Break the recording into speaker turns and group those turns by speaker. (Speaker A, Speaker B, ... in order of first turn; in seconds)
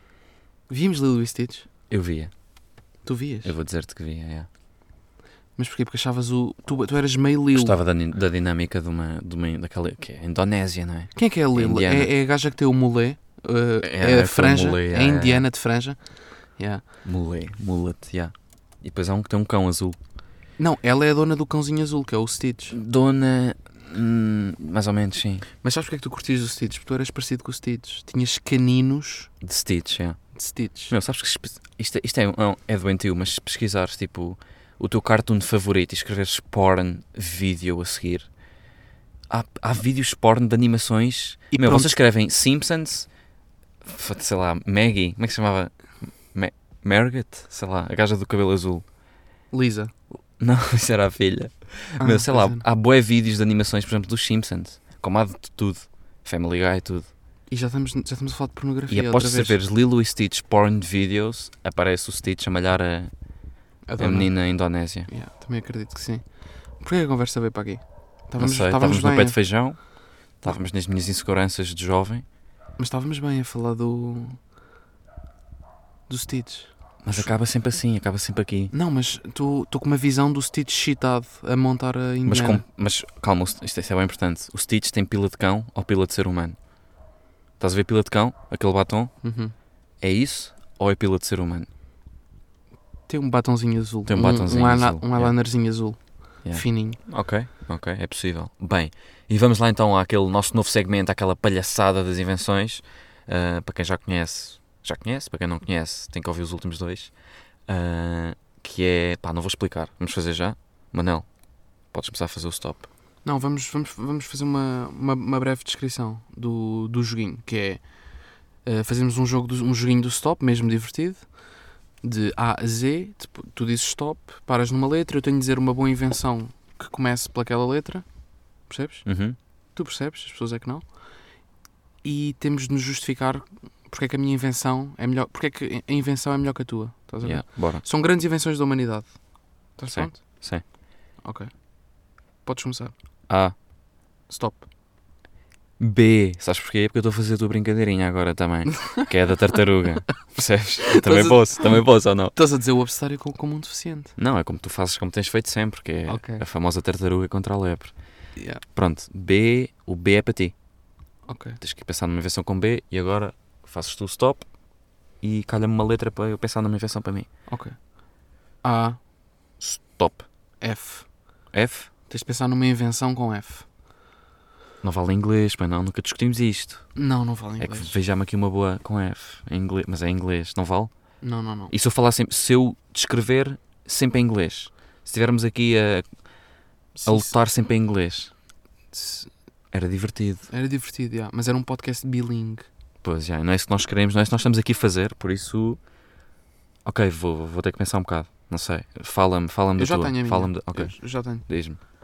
Speaker A: 0.7-1.7, 3.0-3.5, 5.6-7.8, 11.1-16.0, 16.6-16.8, 20.6-22.8, 25.6-29.3, 30.3-30.9, 41.5-42.0, 49.5-49.9, 52.0-52.6, 57.5-59.6, 63.9-64.5, 65.1-66.2, 66.8-69.4, 72.8-74.4, 76.1-77.3, 78.7-82.6, 89.2-89.5, 93.1-97.0, 113.2-117.8, 118.6-121.3, 122.0-128.0, 128.7-129.1, 129.7-130.8, 132.0-139.2, 139.8-140.2, 141.2-141.5, 142.4-142.9, 144.3-144.7, 148.8-149.1, 150.9-154.1, 156.1-156.4, 158.3-158.6, 161.3-161.6, 167.5-167.8, 168.6-169.0, 170.6-171.1, 172.1-173.7, 176.9-177.9, 181.2-181.7, 187.0-187.3, 188.9-189.3, 190.5-192.7, 199.8-201.4
Speaker B: 1.9-2.3, 3.4-4.5, 7.5-12.1, 13.8-15.4, 17.0-20.0, 22.7-25.5, 29.4-30.2, 30.9-38.3, 39.3-43.1, 43.8-48.8, 50.4-57.1, 58.9-63.1, 64.0-65.1, 68.4-69.8, 70.4-72.2, 77.0-78.7, 82.2-86.6, 87.6-89.1, 90.0-91.7, 94.1-95.3, 96.4-107.1, 107.7-111.3, 111.9-112.9, 129.1-129.4, 137.2-137.8, 139.9-140.6, 143.3-143.5, 145.8-152.3, 154.2-157.9, 158.7-160.5, 161.6-164.5, 165.2-167.3, 169.6-170.2, 171.5-171.9, 174.8-176.9, 177.6-180.9, 181.7-186.1, 187.1-188.3, 189.7-190.5, 193.0-195.8, 196.8-200.9, 201.4-201.8